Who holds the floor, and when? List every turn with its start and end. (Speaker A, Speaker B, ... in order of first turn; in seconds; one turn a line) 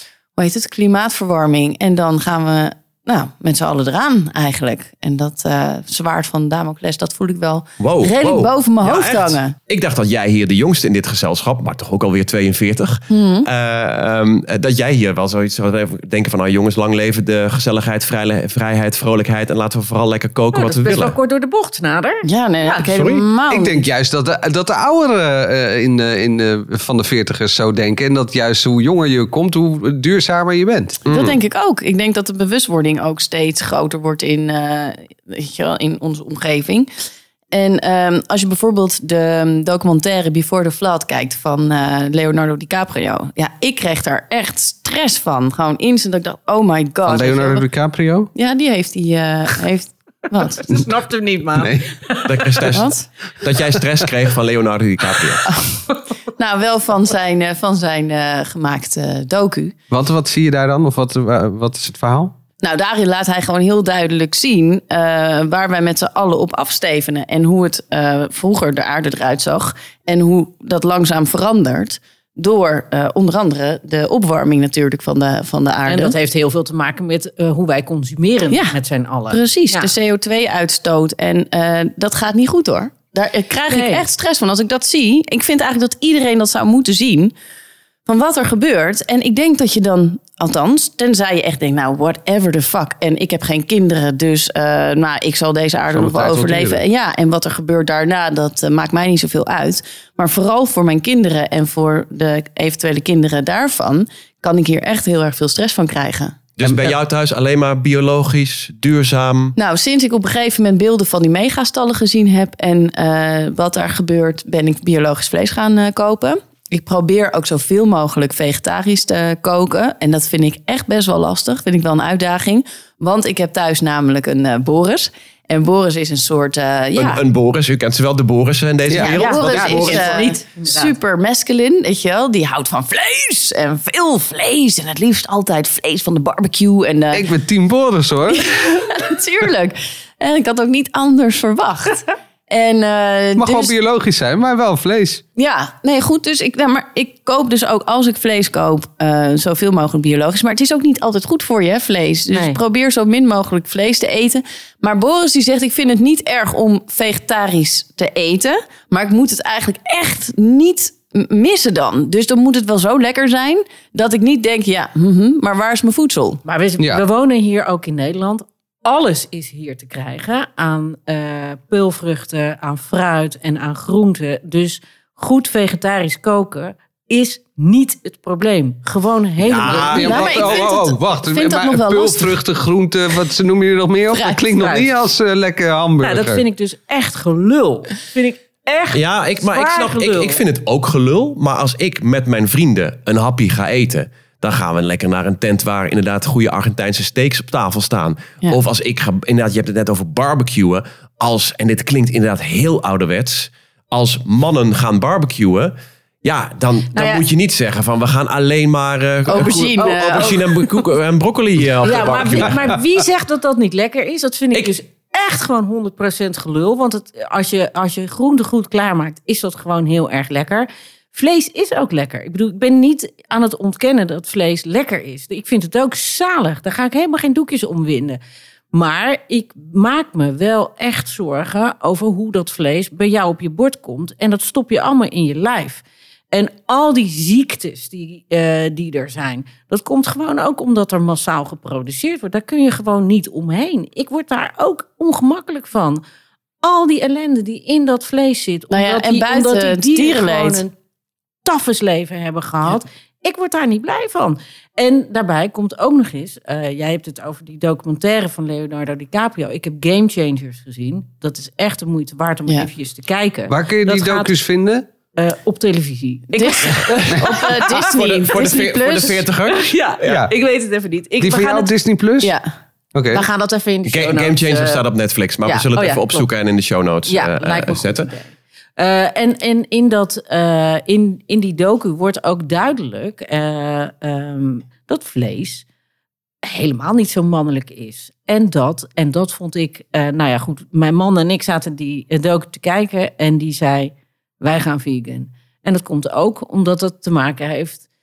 Speaker A: 0.3-9.5
Speaker B: 7.8-21.1
Speaker A: 13.1-13.5
Speaker C: 20.5-22.8
Speaker A: 22.2-23.8
Speaker B: 22.9-23.2
Speaker D: 23.5-31.0
Speaker B: 31.0-31.4
Speaker A: 31.1-36.9
Speaker A: 37.5-47.7
Speaker D: 47.0-48.3
Speaker A: 48.3-50.6
Speaker C: 50.6-52.7
Speaker D: 51.5-51.9
Speaker B: 52.2-55.5
Speaker A: 52.7-53.1
Speaker A: 55.5-55.8
Speaker A: 56.4-59.7
Speaker D: 59.9-62.3
Speaker A: 62.6-76.1
Speaker C: 75.9-79.9
Speaker A: 78.5-78.8
Speaker A: 79.3-87.3
Speaker C: 83.7-84.0
Speaker A: 88.0-106.4
Speaker D: 95.9-96.8
Speaker B: 106.6-109.5
Speaker D: 106.6-106.9
Speaker A: 109.6-127.2
Speaker B: 127.0-130.2
Speaker D: 128.9-129.8
Speaker A: 128.9-137.3
Speaker C: 129.0-130.9
Speaker D: 137.1-138.5
Speaker A: 138.3-143.8
Speaker D: 143.4-145.2
Speaker A: 145.4-166.4
Speaker C: 152.3-152.6
Speaker C: 166.4-180.2
Speaker D: 166.8-167.0
Speaker B: 179.4-180.6
Speaker D: 179.6-186.4
Speaker A: 179.9-182.4
Speaker C: 184.4-184.9
Speaker C: 186.0-190.4
Speaker B: 188.9-212.8
Speaker C: 206.9-207.2
Speaker A: 209.3-210.4
Speaker C: 209.4-210.9
Speaker C: 211.8-228.2
Speaker C: 228.7-246.0
Speaker C: 246.6-250.7
Speaker A: 248.7-250.6
Speaker C: 251.4-264.3
Speaker D: 263.5-264.9
Speaker C: 265.1-267.8
Speaker A: 266.3-269.2
Speaker B: 267.8-270.2
Speaker C: 269.4-271.8
Speaker D: 270.0-270.3
Speaker D: 271.2-272.3
Speaker D: 272.9-273.3
Speaker C: 273.1-274.8
Speaker B: 273.8-278.1
Speaker C: 275.4-276.3
Speaker C: 277.1-285.6
Speaker C: 286.4-297.8